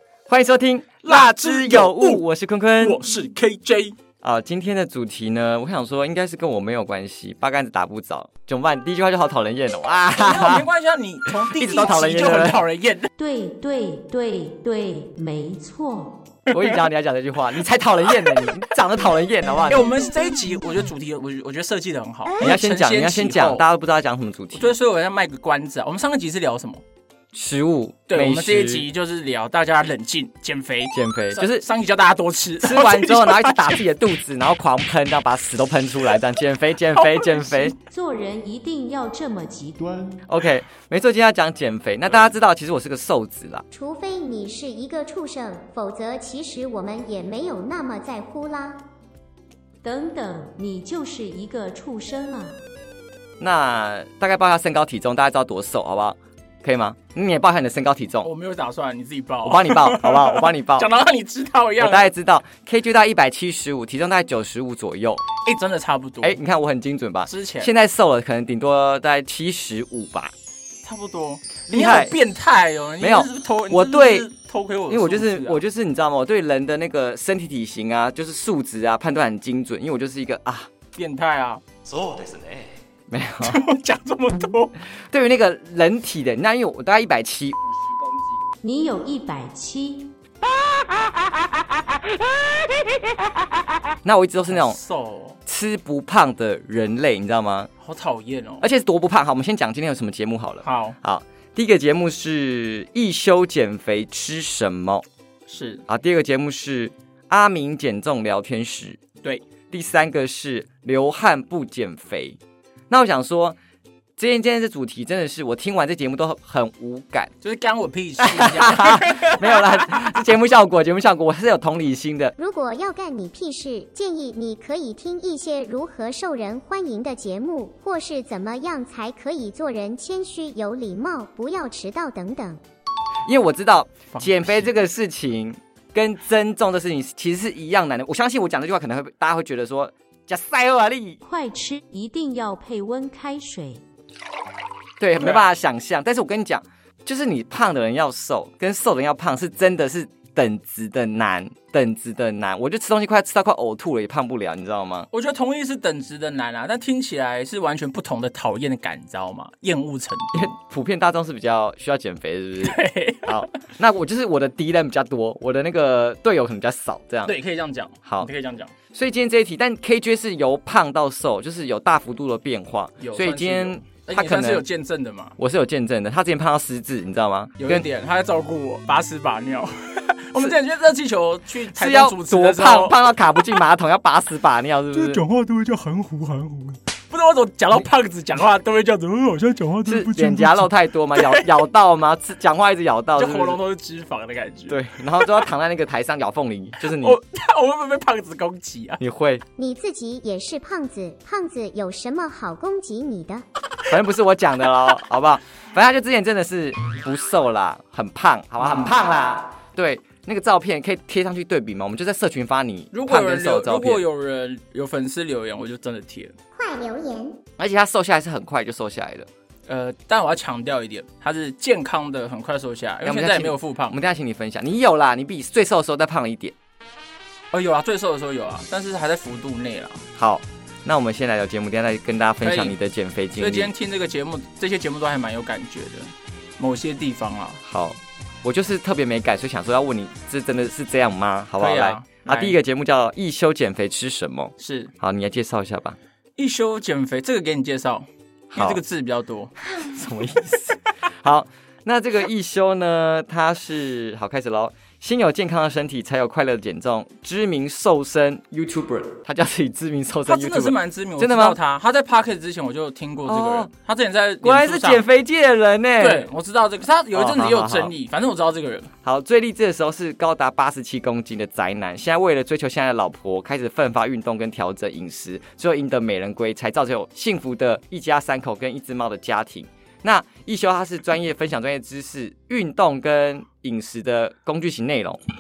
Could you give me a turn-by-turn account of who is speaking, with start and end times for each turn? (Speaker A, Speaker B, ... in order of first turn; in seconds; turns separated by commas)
Speaker A: 0.3-3.0, Speaker B: 1.0-2.2, Speaker B: 2.8-3.9, Speaker A: 4.2-10.7, Speaker B: 10.2-13.1, Speaker A: 11.4-12.6, Speaker C: 13.2-16.2, Speaker A: 16.5-19.9, Speaker B: 16.5-16.8, Speaker B: 19.7-23.6, Speaker A: 22.4-24.7, Speaker B: 24.5-26.8, Speaker A: 27.3-28.9, Speaker B: 28.1-33.8, Speaker A: 30.9-31.6, Speaker A: 32.6-37.8, Speaker C: 37.8-40.2, Speaker A: 40.2-43.6, Speaker D: 43.7-48.8, Speaker C: 49.8-52.6, Speaker A: 53.4-58.3, Speaker B: 58.2-62.1, Speaker A: 59.4-60.9, Speaker A: 61.8-65.2, Speaker B: 65.4-66.4, Speaker A: 66.2-70.3, Speaker B: 67.2-67.7, Speaker B: 70.8-75.6, Speaker A: 71.7-72.2, Speaker A: 73.0-74.3, Speaker A: 74.9-80.7, Speaker B: 81.0-81.6, Speaker A: 83.1-83.6, Speaker B: 83.4-84.8, Speaker A: 85.1-88.3, Speaker C: 88.6-90.1, Speaker A: 94.0-94.8, Speaker B: 94.5-95.4, Speaker A: 95.5-97.7, Speaker B: 97.8-98.7, Speaker A: 98.6-105.0, Speaker B: 100.6-101.0, Speaker B: 105.5-105.8, Speaker A: 105.9-109.0, Speaker A: 109.7-112.4, Speaker A: 112.9-113.6, Speaker A: 114.2-117.3, Speaker B: 117.4-120.2, Speaker A: 118.2-122.3, Speaker D: 122.3-132.6, Speaker A: 133.2-141.2, Speaker B: 134.1-134.7, Speaker C: 141.2-143.8, Speaker A: 145.0-155.1, Speaker B: 145.2-145.4, Speaker B: 155.1-160.5, Speaker A: 160.3-167.3, Speaker B: 162.6-163.6, Speaker B: 167.2-168.7, Speaker A: 168.9-174.7, Speaker B: 173.0-175.3, Speaker A: 175.4-177.8, Speaker B: 177.6-183.0, Speaker A: 181.7-185.2, Speaker B: 184.9-191.5, Speaker A: 189.8-193.6, Speaker B: 193.1-195.2, Speaker A: 194.7-197.2, Speaker B: 196.8-199.0, Speaker A: 199.0-199.4, Speaker D: 199.6-203.4, Speaker A: 203.9-214.0, Speaker B: 208.6-208.9, Speaker B: 212.9-216.3, Speaker D: 216.5-217.4, Speaker A: 217.6-219.3, Speaker B: 219.7-224.0, Speaker A: 223.0-226.5, Speaker B: 227.5-230.1, Speaker A: 230.2-233.7, Speaker B: 232.4-232.7, Speaker B: 233.4-237.6, Speaker A: 237.6-246.0, Speaker B: 241.6-242.6, Speaker B: 244.6-244.9, Speaker B: 246.4-249.5, Speaker A: 248.5-248.8, Speaker A: 249.7-261.6, Speaker B: 260.2-265.0, Speaker A: 263.2-263.7, Speaker A: 264.4-266.3, Speaker B: 266.0-268.9, Speaker A: 267.1-267.9, Speaker A: 269.0-285.2